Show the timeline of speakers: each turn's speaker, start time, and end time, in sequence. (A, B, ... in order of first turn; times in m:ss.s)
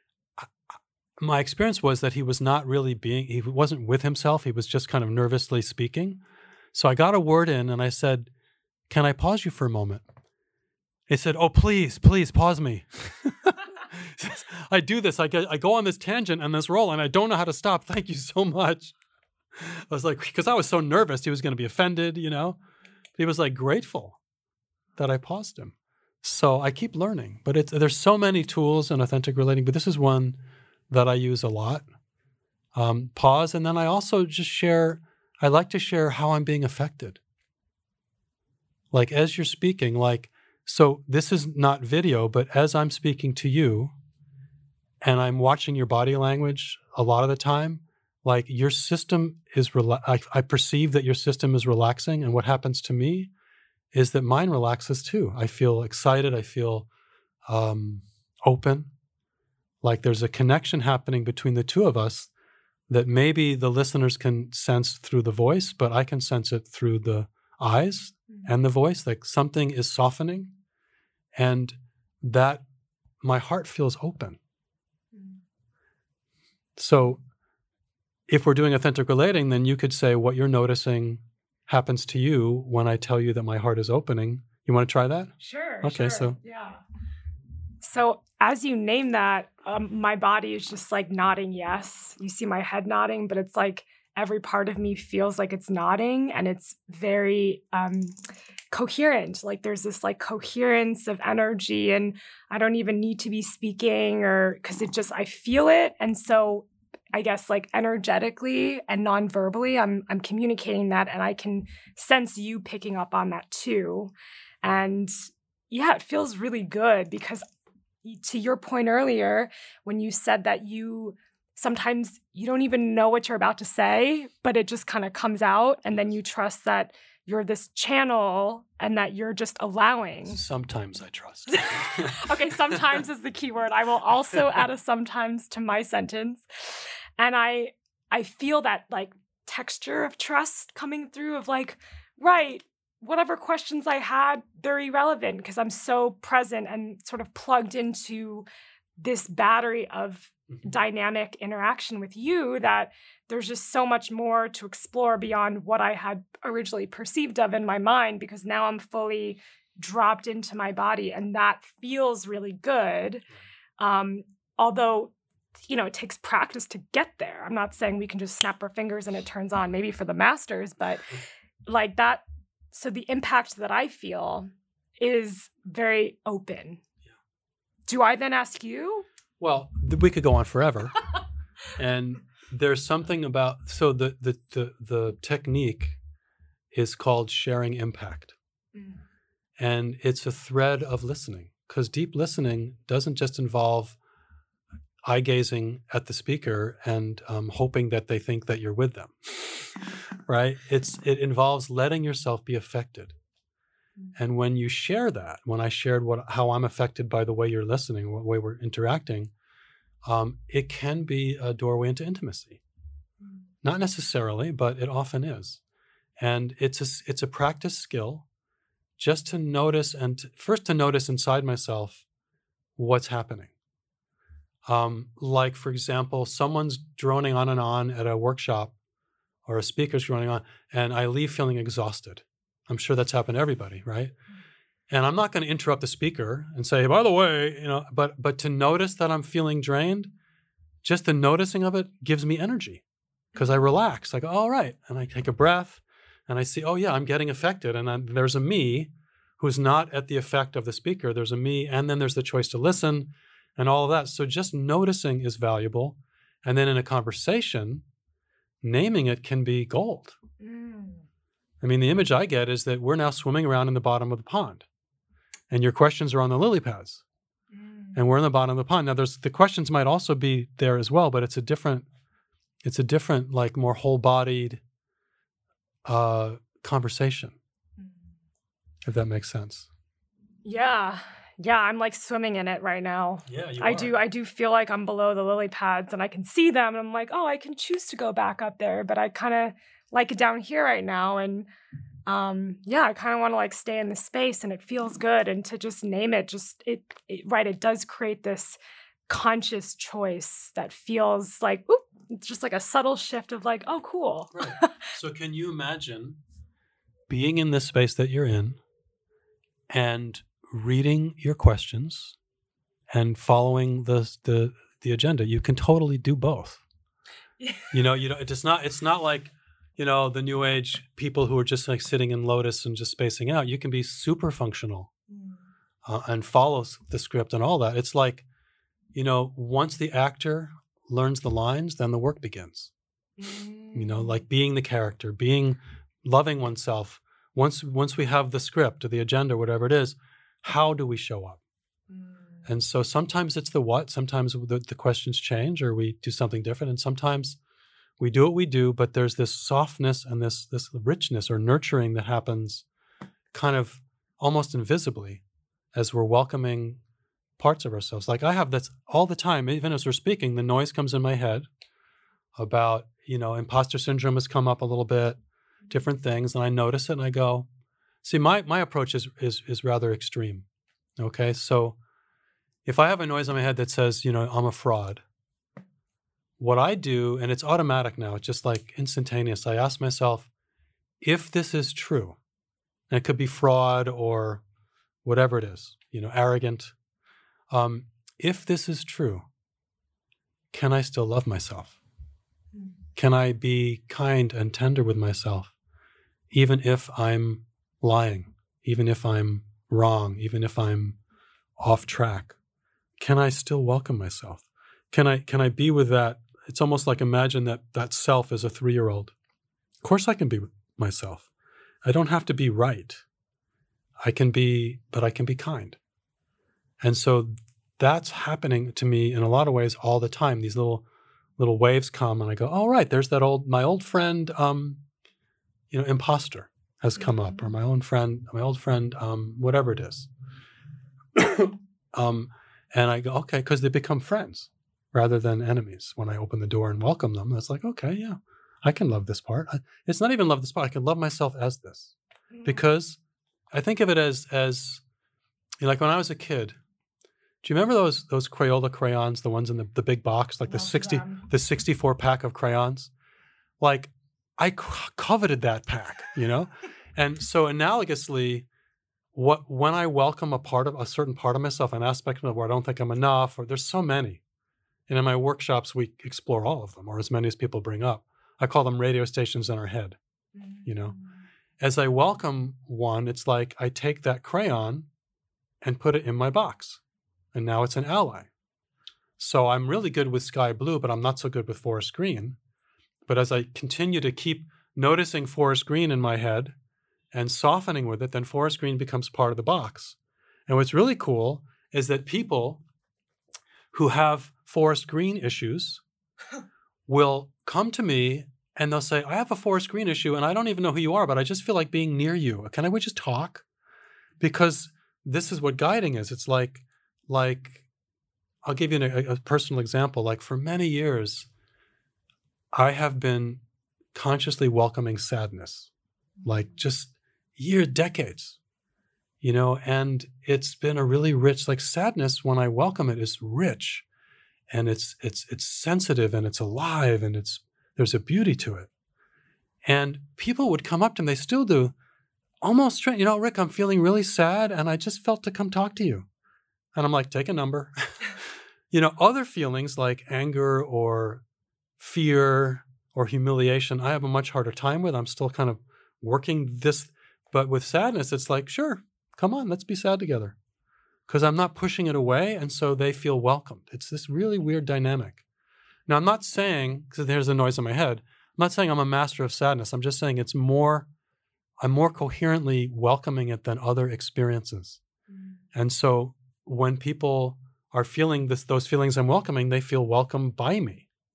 0:00.4-0:06.2 A
0:06.7-0:08.3 A
0:08.9-0:10.0 A
0:11.1-0:18.9 A
0:19.5-0:22.6 A
0:23.2-0:24.2 A
0:25.0-0:30.4 A
0:30.9-0:31.8 A
0:32.7-0:37.2 A
0:38.9-0:43.9 A
0:45.0-0:53.3 A
0:53.9-0:56.9 A
0:57.4-0:58.9 A
0:59.8-1:02.3 A
1:02.9-1:10.5 A
1:11.3-1:12.6 A
1:13.2-1:14.4 A
1:15.1-1:15.4 B
1:16.8-1:17.2 A
1:18.3-1:26.4 A
1:25.4-1:26.8 B
1:27.8-1:38.1 B
1:38.7-1:55.1 B
1:55.7-1:57.4 B
1:58.0-2:10.4 B
2:10.3-2:12.2 A
2:11.5-2:28.5 B
2:29.0-2:43.2 B
2:43.8-2:45.1 B
2:45.7-2:56.8 B
2:57.9-2:59.0 B
2:59.4-3:01.0 A
3:01.8-3:06.0 A
3:06.7-3:08.3 A
3:08.7-3:09.0 B
3:09.6-3:14.0 A
3:15.0-3:23.1 A
3:24.2-3:29.3 A
3:30.0-3:32.6 A
3:33.6-3:35.6 A
3:36.2-3:38.2 A
3:39.0-3:42.0 A
3:42.8-3:43.5 A
3:44.6-3:48.7 A
3:49.4-3:54.2 A
3:54.9-4:00.1 A
4:00.8-4:02.8 A
4:03.3-4:03.6 B
4:03.4-4:17.8 A
4:18.6-4:20.2 A
4:20.4-4:21.0 B
4:21.6-4:24.6 A
4:25.5-4:27.0 A
4:27.5-4:28.0 B
4:27.9-4:31.8 A
4:32.6-4:34.6 A
4:35.8-4:37.4 A
4:38.8-4:39.7 A
4:40.4-4:51.5 B
4:43.3-4:43.9 A
4:52.1-5:04.7 B
5:04.3-5:06.2 A
5:07.1-5:08.6 A
5:09.7-5:12.2 A
5:12.9-5:16.6 A
5:17.4-5:17.7 B
5:17.7-5:24.9 A
5:25.1-5:25.4 B
5:25.8-5:28.2 A
5:28.9-5:32.7 A
5:33.2-5:34.2 B
5:33.7-5:41.4 A
5:41.9-5:42.4 B
5:42.4-5:47.4 A
5:48.0-5:52.6 A
5:53.3-5:55.2 A
5:55.7-5:56.8 A
5:57.4-6:01.5 A
6:02.4-6:05.2 A
6:05.7-6:07.5 A
6:08.0-6:10.4 A
6:11.0-6:11.8 A
6:12.6-6:15.0 A
6:16.4-6:20.3 A
6:21.0-6:22.2 A
6:22.9-6:24.4 A
6:25.0-6:26.7 A
6:27.5-6:29.2 A
6:30.5-6:31.8 A
6:33.0-6:35.5 A
6:36.3-6:41.0 A
6:41.6-6:42.3 A
6:43.0-6:49.1 A
6:49.8-6:51.2 A
6:51.8-6:53.0 A
6:54.0-6:55.8 A
6:56.8-7:00.8 A
7:01.4-7:04.8 A
7:05.7-7:10.1 A
7:11.1-7:21.9 A
7:22.3-7:22.6 B
7:22.4-7:23.0 A
7:23.5-7:24.8 A
7:25.6-7:26.6 A
7:27.4-7:32.9 A
7:30.5-7:31.3 B
7:33.6-7:38.5 A
7:39.1-7:44.2 A
7:44.9-7:50.0 A
7:50.3-7:51.2 B
7:50.6-7:51.0 A
7:51.6-7:54.9 A
7:55.6-7:56.8 A
7:57.3-7:58.3 A
7:59.2-8:02.4 A
8:03.1-8:06.5 A
8:07.1-8:10.0 A
8:10.5-8:12.6 A
8:13.7-8:15.8 A
8:16.9-8:23.4 A
8:24.2-8:27.6 A
8:28.4-8:31.3 A
8:32.5-8:33.4 A
8:33.9-8:35.7 A
8:36.2-8:36.5 B
8:36.2-8:38.4 A
8:39.2-8:43.8 A
8:44.5-8:48.7 A
8:49.6-8:51.7 A
8:52.4-8:56.1 A
8:56.7-9:01.2 A
9:01.8-9:10.3 A
9:11.1-9:15.2 A
9:15.9-9:20.9 A
9:21.6-9:24.8 A
9:25.1-9:25.4 B
9:25.5-9:30.9 A